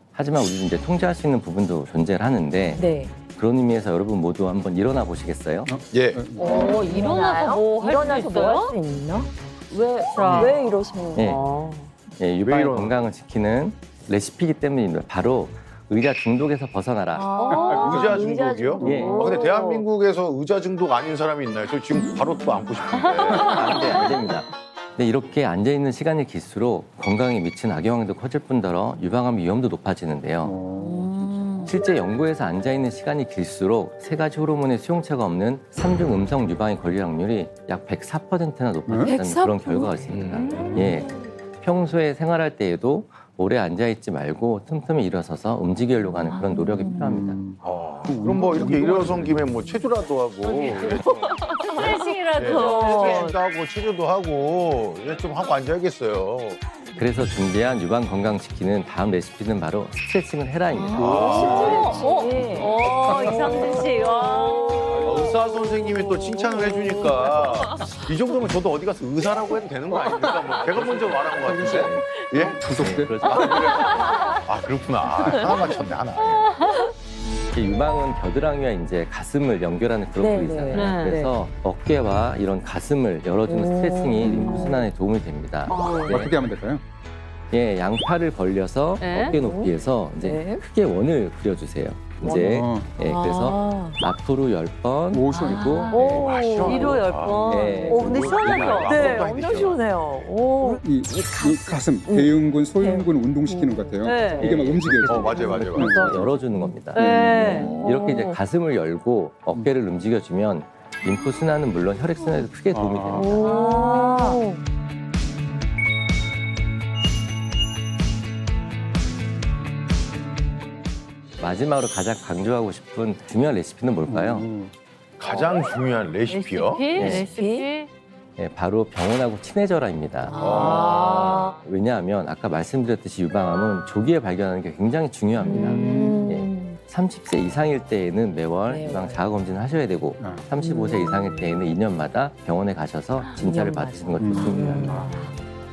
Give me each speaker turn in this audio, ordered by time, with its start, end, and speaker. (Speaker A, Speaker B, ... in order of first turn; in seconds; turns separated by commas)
Speaker A: 0.1-5.7, Speaker B: 2.8-3.1, Speaker C: 5.7-6.6, Speaker D: 5.9-6.2, Speaker B: 6.4-11.4, Speaker E: 6.4-8.7, Speaker E: 10.1-10.6, Speaker D: 10.2-10.5, Speaker E: 11.2-11.9, Speaker A: 12.2-17.3, Speaker D: 12.4-13.0, Speaker B: 17.1-19.9, Speaker E: 17.4-18.1, Speaker C: 17.5-18.1, Speaker D: 17.7-23.9, Speaker C: 18.8-19.2, Speaker A: 18.8-19.2, Speaker E: 18.9-19.4, Speaker E: 22.9-24.2, Speaker A: 23.4-30.6, Speaker C: 30.4-31.1, Speaker B: 30.8-31.8, Speaker A: 31.6-47.4, Speaker C: 38.9-39.1, Speaker B: 39.0-40.0, Speaker D: 40.1-40.8, Speaker E: 40.3-41.0, Speaker B: 46.3-47.1, Speaker C: 46.7-49.6, Speaker D: 47.6-56.6, Speaker E: 50.5-50.7, Speaker B: 50.5-53.4, Speaker E: 51.6-53.4, Speaker A: 57.0-61.9, Speaker B: 60.8-68.1, Speaker D: 60.9-62.1, Speaker E: 61.4-65.1, Speaker D: 65.0-76.5, Speaker B: 69.9-72.5, Speaker C: 70.1-73.8, Speaker A: 71.7-72.0, Speaker A: 72.8-74.1, Speaker B: 73.5-74.4, Speaker E: 74.1-74.4, Speaker B: 75.2-75.9, Speaker C: 75.3-75.5, Speaker E: 76.2-76.9, Speaker A: 77.5-86.3, Speaker B: 80.2-81.3, Speaker E: 80.7-81.2, Speaker B: 83.5-84.9, Speaker C: 84.2-84.8, Speaker E: 84.2-84.8, Speaker E: 85.7-86.3, Speaker C: 86.1-86.8, Speaker A: 87.5-95.8, Speaker E: 89.0-89.4, Speaker B: 89.3-90.6, Speaker B: 92.2-94.0, Speaker C: 92.2-92.9, Speaker C: 95.1-96.3, Speaker E: 95.3-99.3, Speaker B: 95.9-97.0, Speaker D: 95.9-99.9, Speaker A: 97.5-98.7, Speaker B: 97.8-104.5, Speaker C: 100.6-106.3, Speaker E: 104.0-104.5, Speaker A: 104.4-107.0, Speaker D: 105.1-106.1, Speaker B: 105.3-106.8, Speaker E: 106.9-108.3, Speaker C: 107.0-107.8, Speaker A: 107.5-113.5, Speaker B: 107.7-108.3, Speaker C: 112.7-113.4, Speaker B: 113.2-114.6, Speaker E: 113.4-114.5, Speaker A: 121.4-124.5, Speaker C: 124.1-124.7, Speaker D: 125.2-126.9, Speaker E: 125.3-125.5, Speaker E: 126.3-127.9, Speaker A: 127.0-127.3, Speaker B: 127.0-127.7, Speaker A: 128.4-145.1, Speaker B: 130.3-131.5, Speaker D: 130.4-131.3, Speaker E: 130.4-131.6, Speaker B: 135.5-136.8, Speaker C: 135.5-136.3, Speaker B: 138.7-139.3, Speaker C: 140.2-140.5, Speaker B: 140.6-141.8, Speaker B: 143.3-145.3, Speaker C: 144.2-145.1, Speaker E: 144.9-145.3